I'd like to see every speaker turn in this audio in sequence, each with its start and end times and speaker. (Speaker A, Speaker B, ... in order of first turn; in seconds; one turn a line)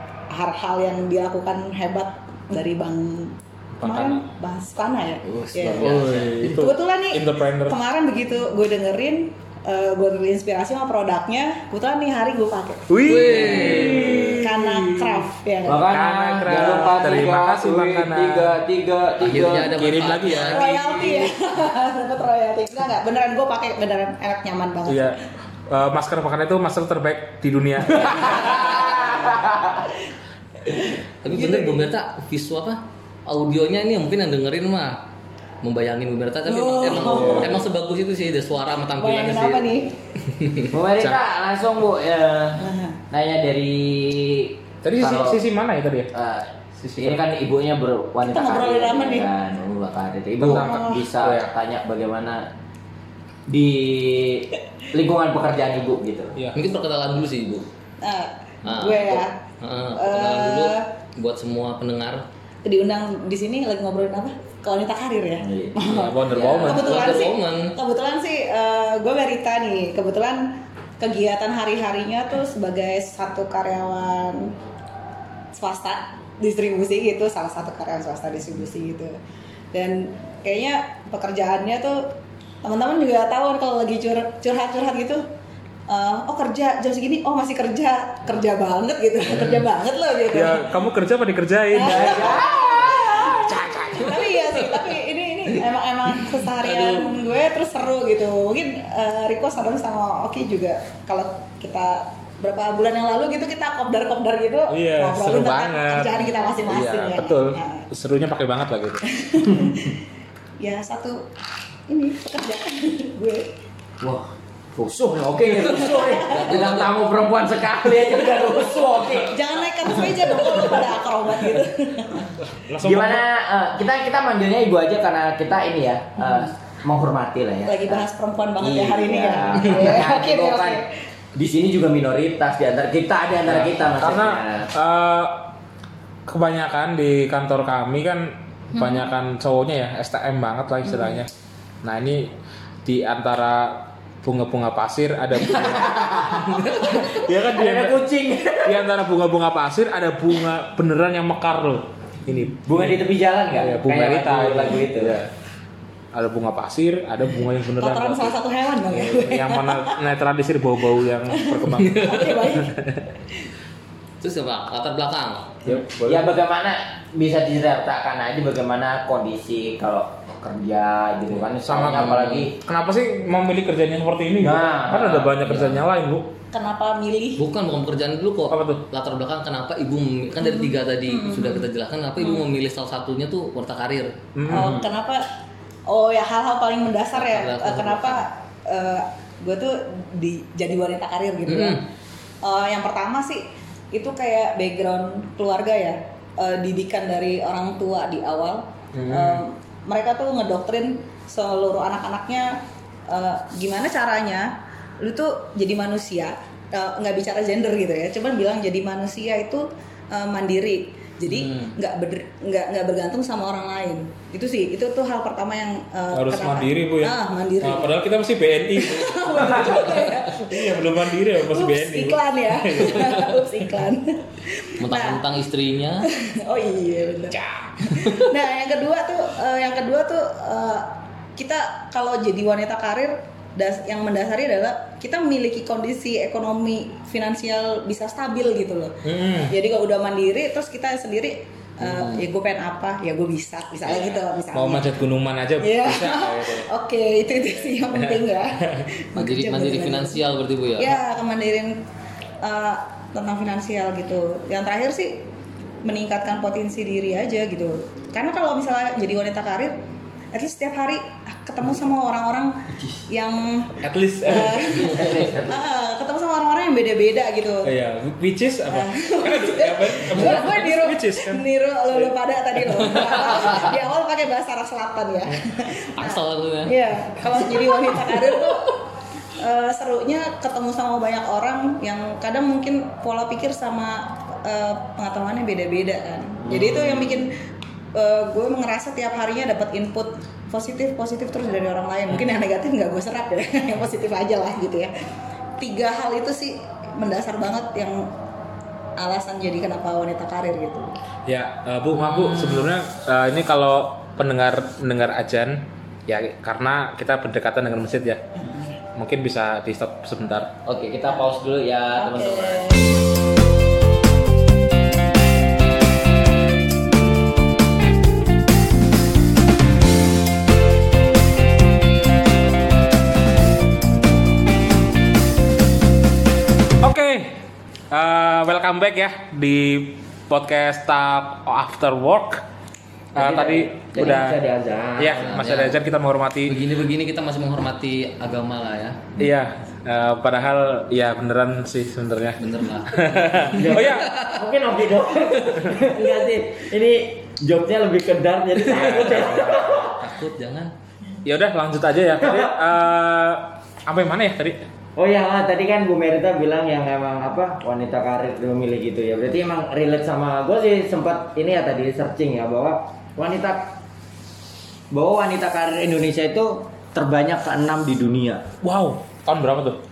Speaker A: 0.3-15.9
Speaker B: 3.8-4.2
Speaker C: 5.3-6.5
Speaker B: 5.8-7.8
Speaker B: 12.9-15.2
Speaker C: 13.0-14.2
Speaker D: 13.2-14.3
Speaker D: 15.7-20.0
Speaker B: 15.9-18.6
Speaker C: 19.2-21.3
Speaker B: 19.7-20.6
Speaker A: 20.5-25.2
Speaker B: 24.9-28.7
Speaker D: 28.0-29.9
Speaker C: 31.2-35.0
Speaker A: 31.3-31.9
Speaker C: 35.6-39.7
Speaker A: 36.5-37.5
Speaker B: 37.1-37.5
Speaker A: 39.0-39.9
Speaker C: 40.3-40.7
Speaker D: 40.7-45.4
Speaker A: 42.6-43.0
Speaker B: 44.8-46.1
Speaker D: 46.1-52.5
Speaker B: 46.8-47.2
Speaker A: 48.3-49.3
Speaker B: 50.4-51.5
Speaker A: 50.5-51.0
Speaker D: 53.5-56.4
Speaker C: 56.5-57.7
Speaker A: 58.0-59.4
Speaker C: 58.6-62.3
Speaker A: 60.0-60.9
Speaker A: 62.6-66.2
Speaker D: 65.4-67.0
Speaker B: 65.8-67.1
Speaker C: 66.7-67.8
Speaker A: 66.7-74.5
Speaker A: 75.5-79.2
Speaker A: 79.7-82.1
Speaker A: 82.6-85.2
Speaker A: 85.9-90.7
Speaker B: 90.3-92.5
Speaker A: 91.7-107.9
Speaker D: 91.8-94.1
Speaker C: 94.0-95.0
Speaker C: 96.1-97.1
Speaker B: 104.7-109.1
Speaker A: 109.1-110.0
Speaker D: 109.5-109.8
Speaker A: 110.6-111.2
Speaker A: 111.9-113.5
Speaker D: 114.0-120.9
Speaker A: 115.8-116.5
Speaker C: 115.9-117.0
Speaker A: 119.1-122.3
Speaker B: 122.5-123.3
Speaker D: 122.8-128.1
Speaker A: 126.2-126.5
Speaker A: 127.7-130.9
Speaker D: 128.6-130.8
Speaker D: 131.3-134.7
Speaker B: 133.5-135.5
Speaker B: 136.3-141.3
Speaker A: 138.8-139.1
Speaker A: 140.9-141.2
Speaker B: 141.8-142.3
Speaker B: 142.8-148.0
Speaker D: 145.5-148.8
Speaker C: 146.6-147.0
Speaker B: 148.6-155.3
Speaker D: 152.7-155.2
Speaker B: 156.1-158.4
Speaker A: 157.8-160.0
Speaker B: 158.9-163.1
Speaker A: 161.3-162.8
Speaker C: 161.8-162.3
Speaker C: 164.2-165.5
Speaker B: 165.7-166.3
Speaker D: 165.7-172.6
Speaker B: 171.6-176.3
Speaker C: 171.8-172.5
Speaker D: 174.4-175.8
Speaker A: 176.5-177.4
Speaker C: 177.4-184.1
Speaker B: 178.5-178.8
Speaker A: 180.4-181.7
Speaker A: 182.2-182.4
Speaker B: 184.3-184.8
Speaker A: 184.5-185.3
Speaker D: 184.5-184.9
Speaker A: 185.9-191.9
Speaker C: 187.1-188.3
Speaker C: 191.5-191.8
Speaker A: 192.4-218.0
Speaker B: 198.9-199.4
Speaker C: 211.3-211.7
Speaker B: 216.1-223.5
Speaker A: 218.8-225.2
Speaker C: 224.8-226.1
Speaker A: 226.0-244.9
Speaker C: 228.0-228.3
Speaker B: 239.0-239.6
Speaker C: 241.8-242.3
Speaker B: 243.8-246.7
Speaker A: 245.6-250.2
Speaker B: 247.9-248.8
Speaker C: 249.2-251.0
Speaker A: 250.8-251.8
Speaker A: 252.4-255.2
Speaker A: 255.8-259.8
Speaker A: 260.3-267.7
Speaker B: 263.8-264.9
Speaker D: 264.7-265.6
Speaker B: 267.6-272.1
Speaker A: 268.7-278.8
Speaker C: 273.0-273.7
Speaker C: 275.9-278.7
Speaker A: 279.4-287.3
Speaker D: 286.4-287.2
Speaker A: 287.9-294.9
Speaker A: 295.6-298.1
Speaker A: 299.0-301.0
Speaker B: 301.3-308.2
Speaker C: 302.0-302.7
Speaker B: 309.0-310.5
Speaker D: 310.6-312.8
Speaker A: 311.9-312.9
Speaker B: 326.8-332.4
Speaker B: 333.1-334.4
Speaker D: 333.1-335.4
Speaker B: 335.0-336.6
Speaker C: 335.1-335.8
Speaker C: 336.5-339.1
Speaker B: 339.2-344.1
Speaker C: 342.4-344.4
Speaker D: 343.5-350.0
Speaker C: 348.7-350.7
Speaker B: 351.2-354.6
Speaker D: 352.2-352.6
Speaker D: 355.0-363.8
Speaker D: 364.9-368.5
Speaker B: 368.6-369.8